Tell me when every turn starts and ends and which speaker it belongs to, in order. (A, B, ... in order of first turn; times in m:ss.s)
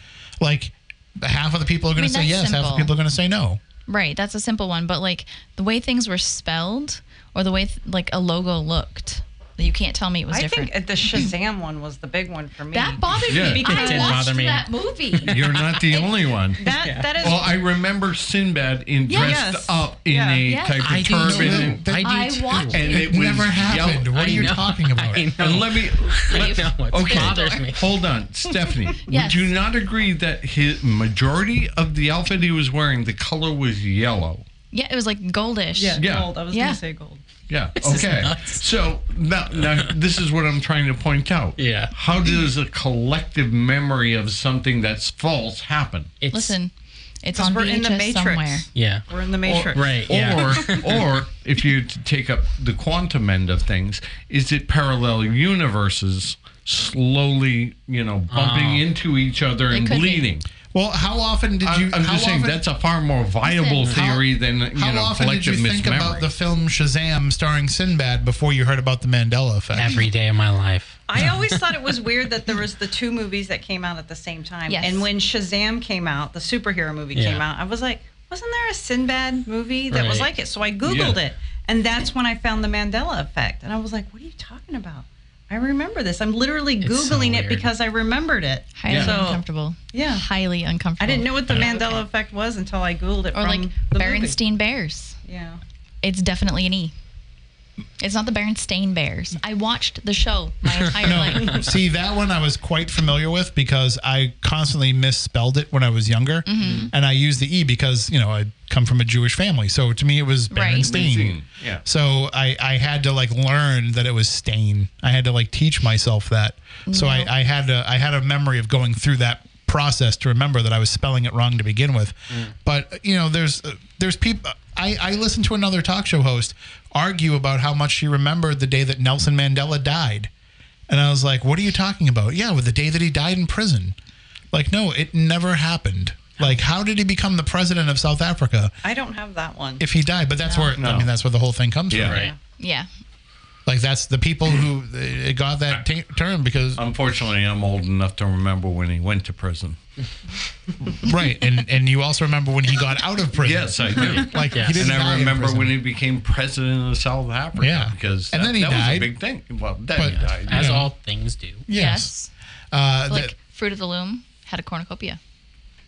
0:00.4-0:03.6 A
0:02.0-0:02.9 B
0:03.9-0:11.3 B
0:10.3-0:14.3 C
0:12.7-0:16.2 B
0:13.3-0:13.8 D
0:13.5-0:16.0 E
0:15.3-0:21.9 D
0:16.6-0:17.5 C
0:19.1-0:19.5 B
0:19.1-0:20.4 C
0:20.4-0:21.1 B
0:20.8-0:23.1 E
0:21.2-0:25.3 A
0:21.9-0:23.2 B
0:22.5-0:24.6 D
0:23.8-0:27.9 E
0:25.4-0:34.4 D
0:26.1-0:27.9 B
0:28.4-0:29.5 B
0:34.7-0:36.8 B
0:35.8-0:37.2 C
0:36.0-0:36.4 D
0:37.5-0:46.2 D
0:37.8-0:38.6 B
0:41.6-0:42.0 E
0:46.2-0:46.6 E
0:46.3-0:48.7 B
0:47.3-0:50.8 C
0:48.8-0:49.0 E
0:49.4-1:00.4 D
0:49.7-0:51.0 E
0:58.3-0:58.9 E
0:59.7-1:00.3 B
1:00.7-1:02.6 A
1:01.6-1:06.3 D
1:03.4-1:04.1 B
1:04.0-1:10.0 A
1:09.7-1:11.7 E
1:11.1-1:30.2 C
1:14.7-1:15.1 B
1:17.2-1:17.4 E
1:19.9-1:20.3 E
1:20.8-1:21.2 D
1:26.8-1:27.7 E
1:28.8-1:32.0 B
1:28.9-1:29.3 D
1:31.0-1:34.4 C
1:33.4-1:35.2 B
1:35.2-1:35.6 C
1:36.0-1:37.0 B
1:38.0-1:41.7 B
1:40.6-1:41.6 E
1:41.0-2:10.3 A
1:46.5-1:46.9 B
1:46.6-1:46.9 E
1:50.5-1:51.1 B
1:50.8-1:51.8 D
1:56.9-1:57.3 B
2:02.3-2:02.6 E
2:10.9-2:14.0 A
2:14.5-2:18.8 A
2:18.8-2:19.8 C
2:19.8-2:22.2 A
2:20.5-2:20.8 B
2:20.8-2:21.1 D
2:21.9-2:22.2 D
2:22.0-2:22.3 E
2:22.1-2:22.4 C
2:22.6-2:22.9 B
2:23.7-2:26.8 A
2:26.8-2:29.8 D
2:31.0-2:35.8 A
2:33.4-2:40.8 D
2:34.0-2:34.8 E
2:37.6-2:39.2 A
2:39.9-2:40.9 A
2:40.0-2:41.7 E
2:41.7-2:42.1 A
2:41.7-2:42.3 B
2:42.7-2:43.3 A
2:43.1-2:45.2 B